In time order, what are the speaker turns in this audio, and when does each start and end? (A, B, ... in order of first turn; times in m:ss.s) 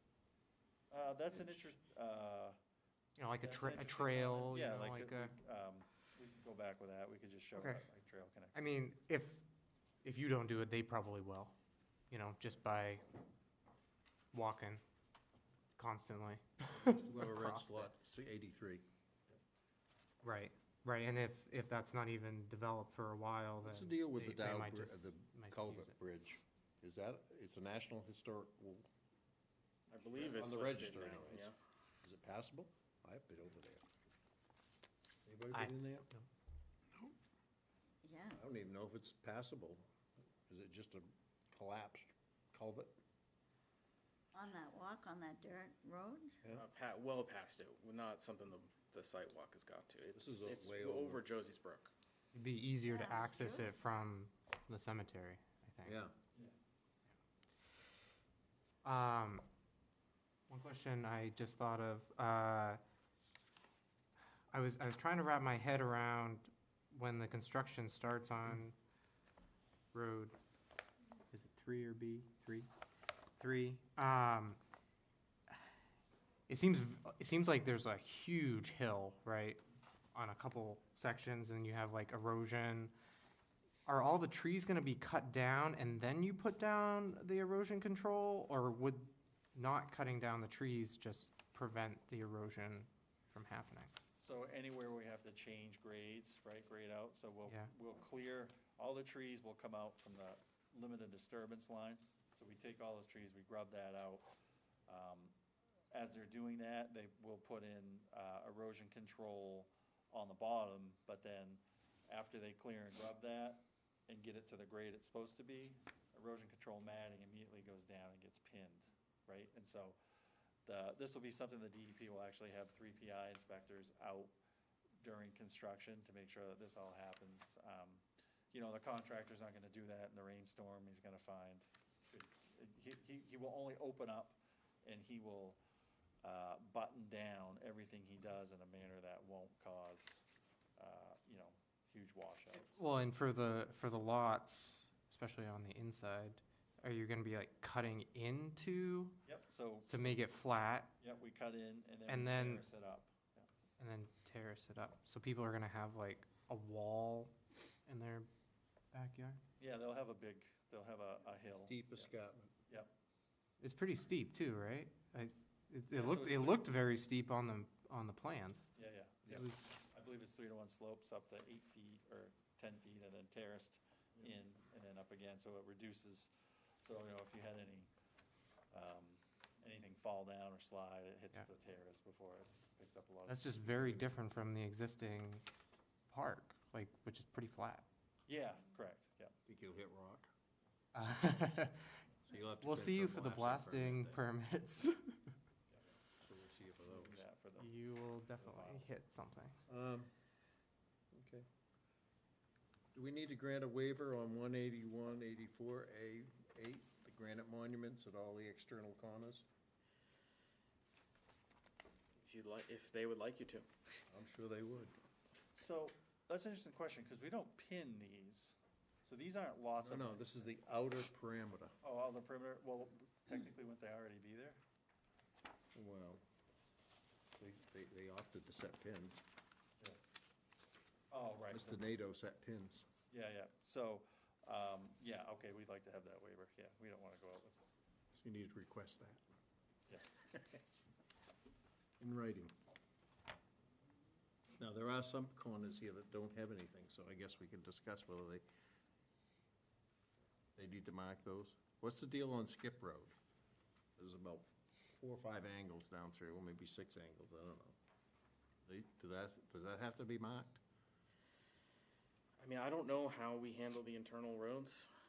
0:00.9-0:02.6 A
0:03.2-0:05.4 B
0:03.4-0:08.6 A
0:07.5-0:07.8 B
0:08.5-0:09.4 B
0:10.0-0:11.5 B
0:12.1-0:13.0 B
0:14.3-0:14.8 B
0:15.8-0:17.9 B
0:16.8-0:18.8 C
0:20.2-0:25.9 B
0:23.6-0:28.9 C
0:29.9-0:31.6 D
0:30.2-0:31.5 C
0:32.0-0:33.8 C
0:35.2-0:36.1 C
0:35.5-0:36.2 B
0:38.0-0:38.4 E
0:38.3-0:39.8 C
0:40.5-0:43.0 C
0:44.3-0:46.3 E
0:46.5-0:51.9 D
0:50.1-0:51.2 C
0:52.3-0:56.0 B
0:52.8-0:53.7 E
0:55.8-0:56.1 C
0:58.8-0:59.5 B
1:00.5-1:02.8 B
1:04.5-1:08.7 B
1:09.9-1:10.4 B
1:11.3-1:12.7 B
1:13.4-1:14.6 B
1:16.5-1:19.6 B
1:20.1-1:22.9 B
1:23.8-1:33.9 B
1:34.2-1:44.3 A
1:44.9-1:45.3 A
1:45.9-2:00.0 A
2:00.6-2:04.3 A
2:05.0-2:15.6 A
2:16.2-2:20.2 A
2:20.8-2:22.8 A
2:22.5-2:29.2 B
2:29.2-2:30.2 A
2:29.8-2:30.9 B
2:31.0-2:33.5 A
2:32.1-2:32.7 B
2:33.8-2:37.3 B
2:37.9-2:38.3 B
2:38.9-2:39.4 B
2:39.6-2:42.1 A
2:41.6-2:42.6 C
2:42.7-2:42.9 A
2:43.6-2:48.7 B
2:46.0-2:46.7 A
2:48.8-2:57.9 A
2:49.3-2:49.8 B
2:58.7-3:03.6 A
3:03.3-3:05.4 B
3:06.1-3:07.8 B
3:08.3-3:09.3 A
3:09.5-3:10.3 C
3:11.0-3:11.9 B
3:12.3-3:14.2 C
3:12.6-3:15.3 B
3:16.2-3:17.2 C
3:16.9-3:17.8 A
3:17.6-3:19.6 B
3:18.3-3:18.9 A
3:19.7-3:20.1 C
3:21.1-3:21.5 C
3:22.9-3:29.5 C
3:32.2-3:33.7 D
3:34.1-3:35.0 C
3:35.6-3:40.5 A
3:39.8-3:41.8 C
3:41.8-3:44.6 A
3:45.7-3:46.2 C
3:47.4-3:49.2 C
3:51.1-3:51.9 A
3:51.5-3:52.9 C
3:53.1-3:57.6 A
3:58.1-3:59.2 C
3:59.9-4:00.2 A
4:02.0-4:02.6 C
4:04.6-4:08.4 C
4:10.6-4:13.2 C
4:14.0-4:17.8 C
4:18.7-4:20.6 C
4:22.4-4:24.9 D